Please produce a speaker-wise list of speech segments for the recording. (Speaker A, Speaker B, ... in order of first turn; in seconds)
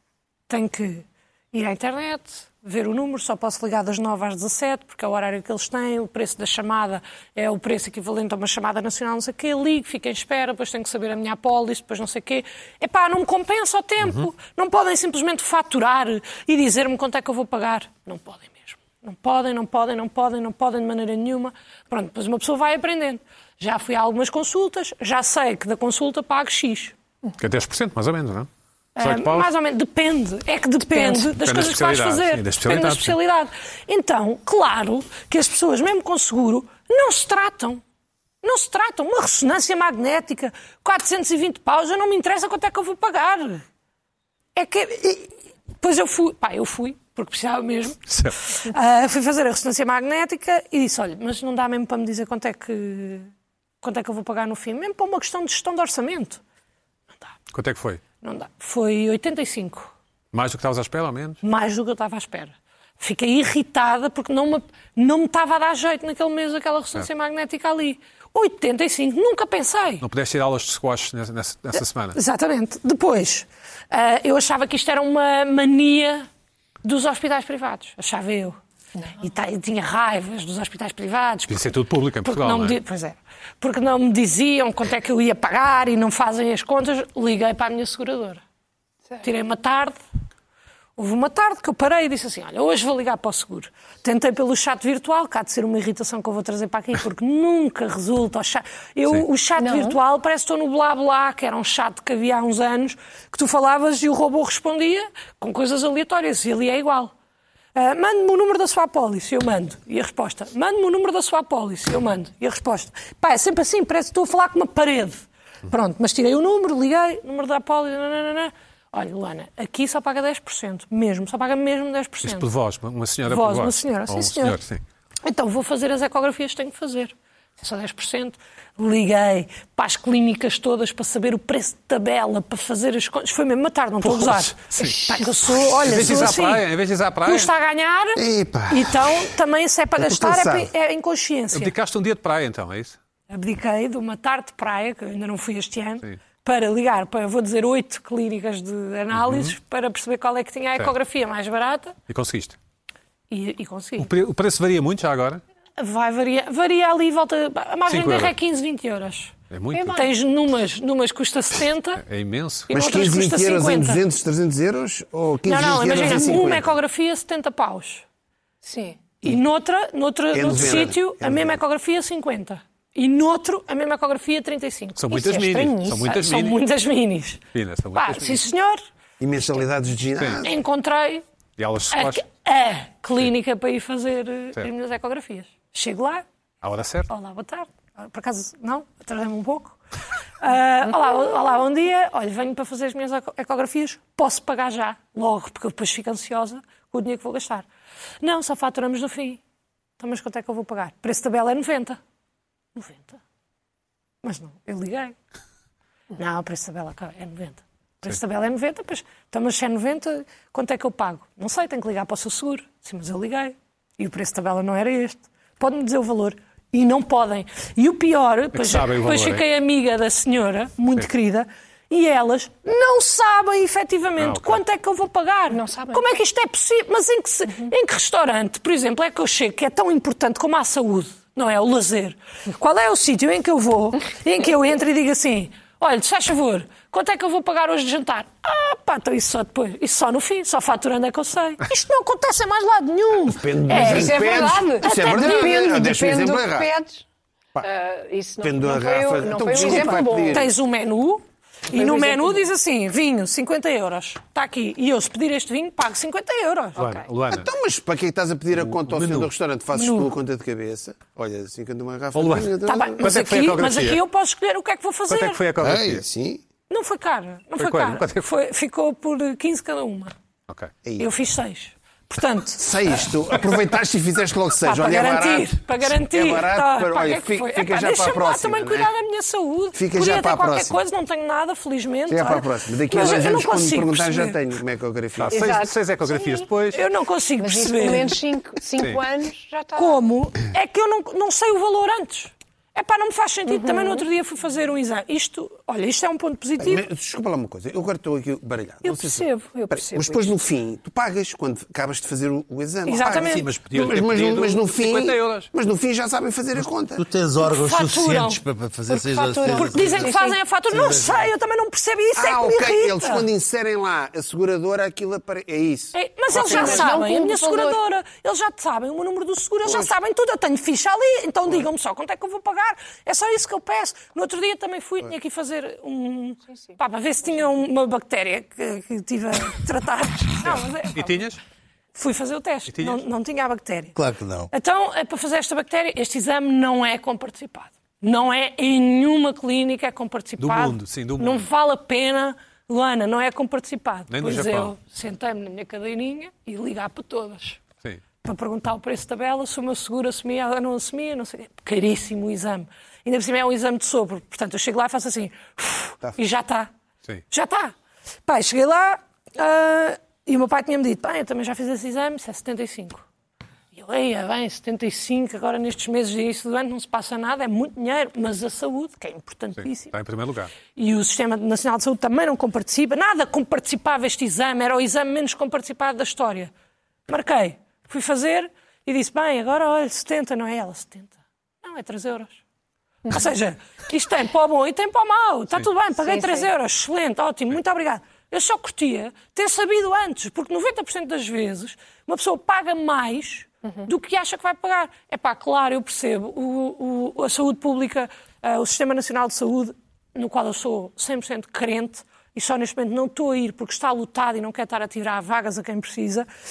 Speaker A: 0.5-26.9, 29.0-37.8, 38.4-43.6, 44.5-53.3, 53.8-56.4, 58.2-59.9, 61.4-70.0, 72.2-76.3, 76.8-78.6, 79.2-88.4, 89.2-90.0, 91.0-107.1, 107.8-122.5, 123.3-124.6, 125.2-136.7, 137.2-141.7, 143.3-152.0, 153.3-154.1, 155.8-159.3, 159.9-162.0, 162.7-164.0, 165.4-168.0, 169.2-175.3, 176.0-177.4, 177.9-178.8, 180.4-181.2, 181.9-186.2, 187.1-189.8, 190.4-197.7, 198.2-199.4, 200.0-202.0, 202.8-203.2, 204.2-205.2, 206.2-245.8, 249.6-257.0, 259.7-260.1, 262.7-265.4, 266.7-270.1, 271.0-273.1, 274.6-284.4, 286.7-288.2, 289.8-296.9, 302.9-303.5, 307.4-308.4, 309.5-313.3, 315.9-331.2, 331.9-334.0, 334.5-347.6, 348.2-356.7, 357.3-357.7, 358.3-363.0, 363.7-369.9, 370.7-376.5, 377.1-382.4, 383.1-406.3
Speaker B: 27.4-28.5, 29.0-29.5, 31.4-33.2, 48.1-48.4, 57.5-58.0, 60.3-61.4, 70.0-72.2, 81.5-82.8, 122.2-124.8, 134.0-135.0, 135.8-137.5, 141.5-143.0, 149.1-149.6, 152.1-152.6, 154.0-155.4, 157.9-158.3, 159.5-160.1, 162.0-162.7, 170.6-170.8, 175.0-176.6, 177.5-178.4, 180.2-180.4, 181.6-182.2, 186.6-187.1, 218.5-219.4, 224.2-224.6, 256.8-257.5, 258.6-259.3, 262.1-264.0, 265.1-266.1, 267.6-268.2, 285.2-286.8, 288.8-289.0, 303.1-305.5, 330.4-331.4, 332.7-333.0, 340.4-341.5, 344.1-344.7, 369.6-370.5
Speaker C: 30.9-31.3, 99.6-100.0, 134.8-135.1, 159.7-160.1, 168.6-169.0, 175.1-176.1, 225.5-226.1, 243.7-247.0, 247.6-250.5, 251.7-252.5, 285.3-286.5, 287.4-290.0, 293.5-294.1, 298.8-300.3, 308.9-310.4, 316.3-317.8, 386.0-386.5
Speaker D: 138.2-139.3, 140.0-140.7, 162.7-166.8, 170.3-171.6, 179.2-180.6, 243.3-246.7, 248.4-250.5, 257.3-263.0, 265.6-266.4, 272.6-278.9, 279.8-280.8, 282.1-285.6, 296.6-307.0, 312.1-316.9, 319.7-319.9
Speaker E: 306.9-310.2, 310.7-311.3, 333.9-334.5